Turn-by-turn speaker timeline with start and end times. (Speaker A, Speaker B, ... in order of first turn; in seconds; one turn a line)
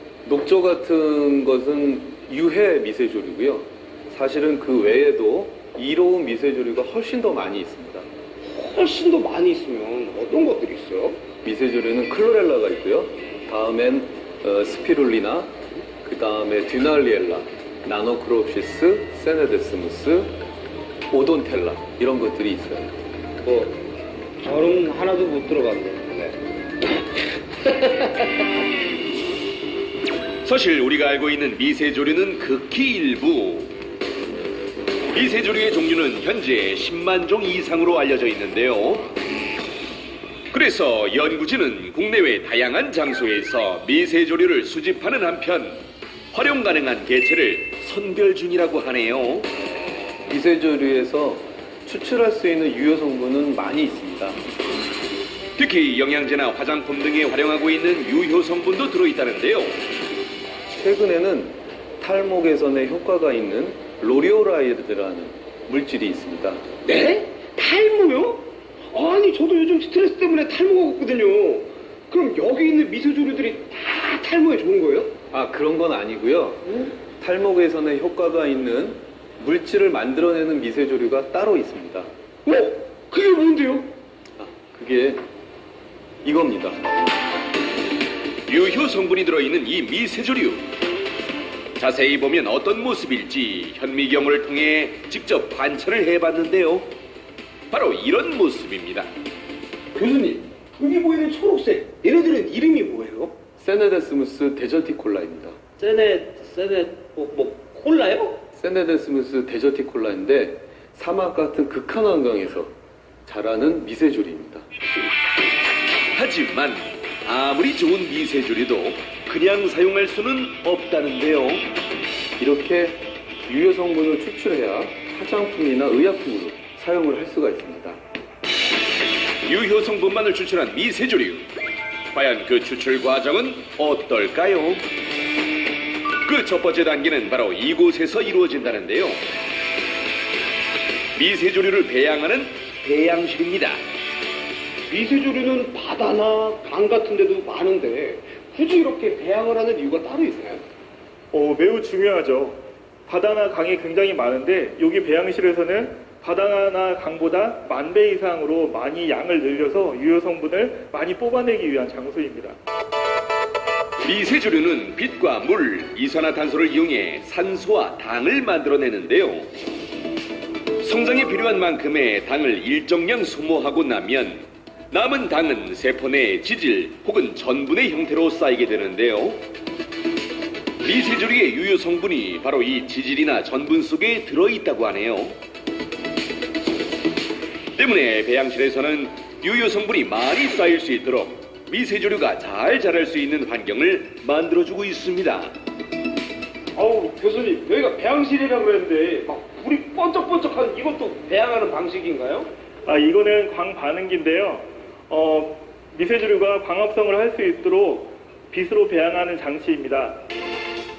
Speaker A: 0.2-8.1
Speaker B: 8.4-11.2
Speaker A: 11.4-20.3
Speaker A: 21.1-22.9
Speaker B: 23.4-23.8
Speaker B: 24.4-27.0
Speaker B: 27.6-28.3
Speaker C: 30.4-33.7
Speaker C: 35.1-39.1
Speaker C: 40.5-45.8
Speaker C: 46.3-49.5
Speaker A: 50.3-54.4
Speaker C: 55.6-59.8
Speaker A: 60.7-66.6
Speaker B: 66.8-75.1
Speaker A: 75.3-82.1
Speaker B: 82.5-83.9
Speaker A: 84.4-85.2
Speaker A: 86.2-86.9
Speaker C: 88.5-90.6
Speaker C: 91.8-96.9
Speaker C: 97.7-99.1
Speaker B: 100.0-103.4
Speaker A: 103.6-105.6
Speaker B: 105.8-108.4
Speaker A: 108.6-112.7
Speaker A: 113.3-114.7
Speaker C: 116.1-121.7
Speaker A: 122.4-128.0
Speaker C: 129.4-131.5
Speaker C: 132.1-134.8
Speaker C: 136.2-139.2
Speaker C: 141.2-143.8
Speaker B: 144.9-150.6
Speaker D: 151.3-162.6
Speaker C: 164.1-169.5
Speaker C: 170.8-179.4
Speaker C: 180.8-185.3
Speaker C: 187.8-195.5
Speaker B: 196.8-202.5
Speaker D: 202.8-210.2